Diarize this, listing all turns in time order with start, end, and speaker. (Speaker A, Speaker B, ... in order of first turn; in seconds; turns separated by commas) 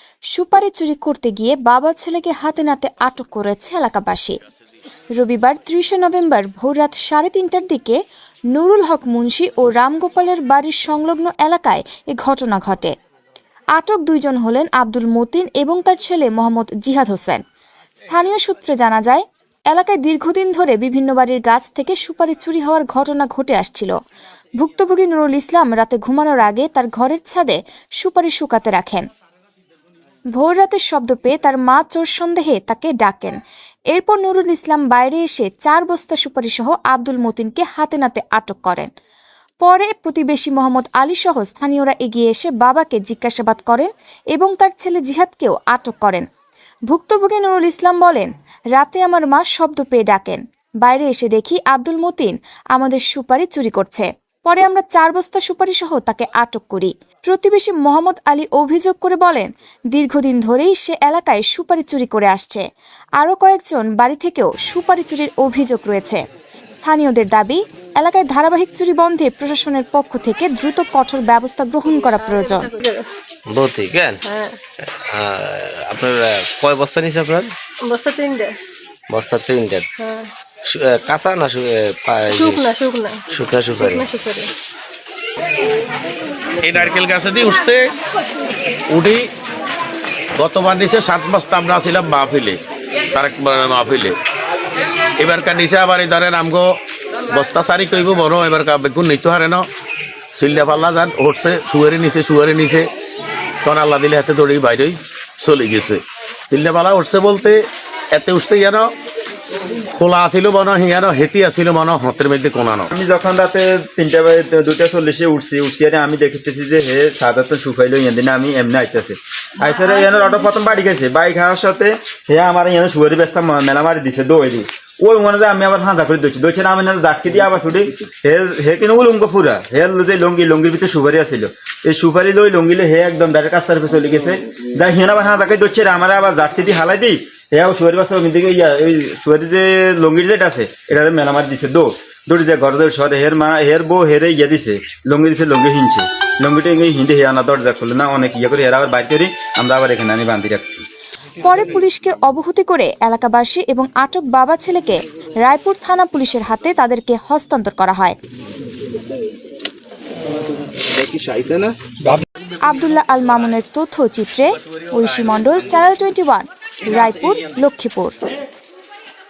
Speaker A: 0.3-4.3, Speaker A: 5.2-8.0, Speaker A: 8.5-12.9, Speaker A: 13.8-17.4, Speaker A: 18.1-23.9, Speaker A: 24.6-29.1, Speaker A: 30.3-33.4, Speaker A: 33.9-38.9, Speaker A: 39.6-46.2, Speaker A: 46.9-62.6, Speaker A: 63.2-66.2, Speaker A: 66.8-72.7, Speaker B: 72.0-73.0, Speaker C: 73.5-74.2, Speaker B: 74.3-74.6, Speaker C: 74.8-77.5, Speaker B: 77.9-78.5, Speaker C: 79.1-79.9, Speaker B: 80.0-80.3, Speaker C: 80.6-82.7, Speaker B: 82.3-83.2, Speaker C: 83.3-84.1, Speaker B: 83.8-84.5, Speaker D: 86.6-87.9, Speaker D: 88.9-89.3, Speaker D: 90.4-92.6, Speaker D: 93.1-94.2, Speaker D: 95.2-96.8, Speaker D: 97.3-99.6, Speaker D: 100.3-102.9, Speaker D: 103.6-108.9, Speaker D: 109.9-112.9, Speaker E: 112.9-150.8, Speaker A: 151.4-158.2, Speaker C: 160.9-161.7, Speaker A: 162.6-168.2